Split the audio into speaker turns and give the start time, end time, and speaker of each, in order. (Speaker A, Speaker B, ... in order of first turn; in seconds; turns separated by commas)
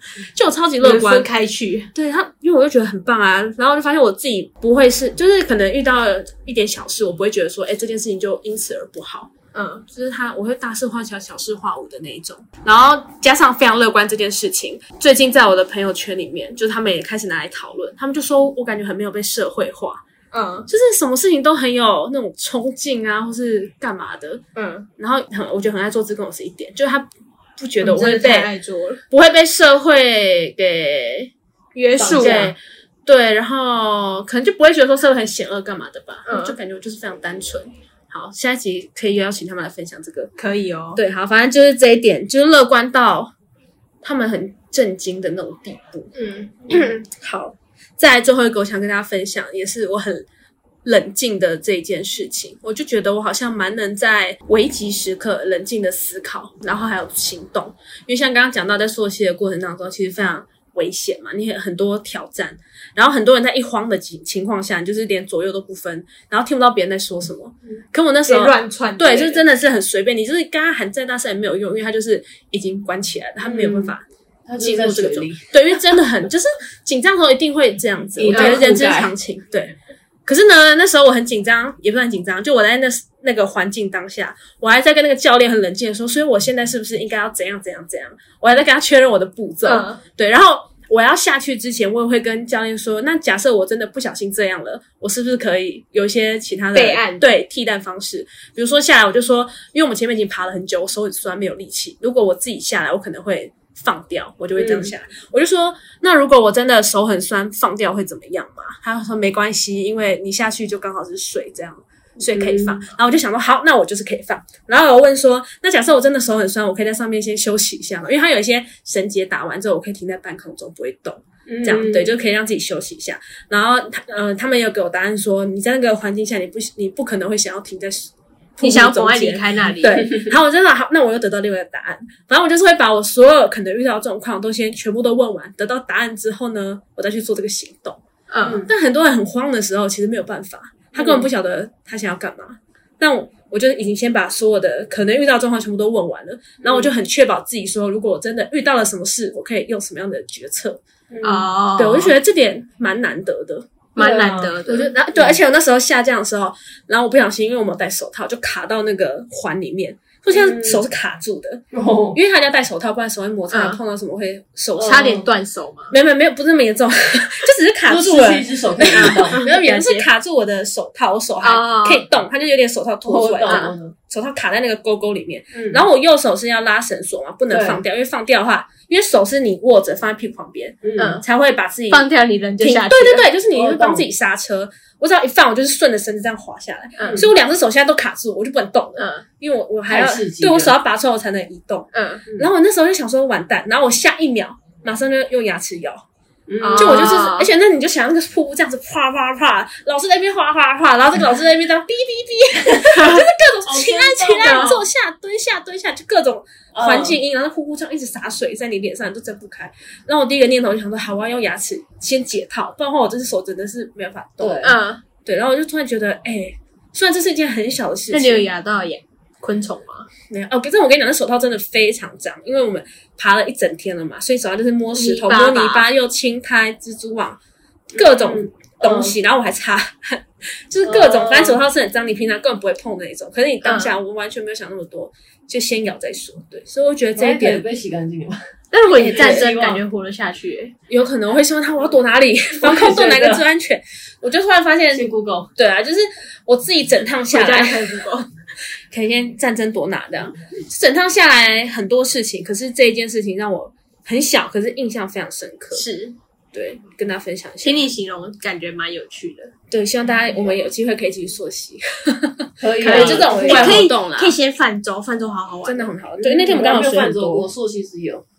Speaker A: 0.2-1.3, Speaker B: 0.8-1.9, Speaker A: 1.9-9.3, Speaker B: 9.5-9.8, Speaker A: 9.9-20.0, Speaker B: 20.3-20.7, Speaker A: 20.7-24.4, Speaker B: 24.6-24.9, Speaker A: 25.0-28.5, Speaker B: 27.8-29.0, Speaker A: 29.1-31.3, Speaker B: 31.8-32.5, Speaker C: 32.0-32.5, Speaker A: 32.0-40.3, Speaker B: 36.3-36.6, Speaker B: 40.4-41.0, Speaker A: 41.0-43.3, Speaker A: 44.0-46.1, Speaker B: 46.1-46.6, Speaker A: 46.7-50.3, Speaker A: 50.9-74.1, Speaker B: 68.3-69.4, Speaker C: 73.4-73.9, Speaker C: 74.5-76.0, Speaker A: 74.6-79.8, Speaker C: 78.2-79.1, Speaker B: 78.3-78.7, Speaker A: 80.3-138.0, Speaker B: 89.7-90.0, Speaker B: 96.7-97.3, Speaker C: 104.6-104.9, Speaker C: 112.2-112.8, Speaker C: 121.5-122.1, Speaker B: 128.6-130.1, Speaker B: 138.3-138.7, Speaker C: 138.4-138.7, Speaker A: 138.6-150.8, Speaker C: 141.0-141.2, Speaker C: 146.6-146.9, Speaker C: 151.1-151.5, Speaker B: 151.2-152.2, Speaker A: 151.8-153.7, Speaker B: 154.0-154.9, Speaker C: 154.0-154.6, Speaker A: 154.7-161.6, Speaker C: 160.3-160.8, Speaker C: 161.7-162.2, Speaker A: 162.1-165.2, Speaker B: 163.5-163.8, Speaker C: 164.8-165.3, Speaker B: 164.8-165.9, Speaker A: 165.9-196.0, Speaker C: 167.9-169.4, Speaker B: 168.9-170.1, Speaker B: 171.4-172.1, Speaker C: 173.1-173.9, Speaker B: 173.4-173.7, Speaker C: 175.5-175.8, Speaker C: 177.5-177.8, Speaker C: 180.8-181.2, Speaker B: 181.0-181.2, Speaker B: 181.9-183.3, Speaker C: 183.5-184.1, Speaker B: 187.0-187.2, Speaker B: 189.0-189.2, Speaker C: 189.9-190.7, Speaker B: 191.9-192.3, Speaker C: 196.5-197.3, Speaker B: 196.6-197.5, Speaker A: 196.8-218.5, Speaker B: 203.0-203.2, Speaker C: 203.7-204.8, Speaker B: 204.4-204.8, Speaker C: 206.7-207.2, Speaker C: 214.4-214.8, Speaker B: 214.6-215.0, Speaker B: 218.1-220.1, Speaker A: 220.3-227.4, Speaker B: 224.9-225.9, Speaker A: 227.9-237.7, Speaker C: 227.9-229.2, Speaker C: 230.8-231.6, Speaker B: 233.6-234.0, Speaker C: 237.2-238.4, Speaker B: 238.7-240.8, Speaker A: 239.0-239.5, Speaker C: 239.1-239.8, Speaker A: 240.9-247.9, Speaker C: 242.6-243.4, Speaker C: 244.9-245.5, Speaker B: 247.3-248.3, Speaker A: 248.9-255.8, Speaker B: 255.7-256.2, Speaker A: 256.5-257.9, Speaker B: 257.6-259.5, Speaker A: 259.7-264.3, Speaker C: 262.6-263.8, Speaker B: 262.8-265.9, Speaker A: 265.6-267.5, Speaker C: 266.2-268.2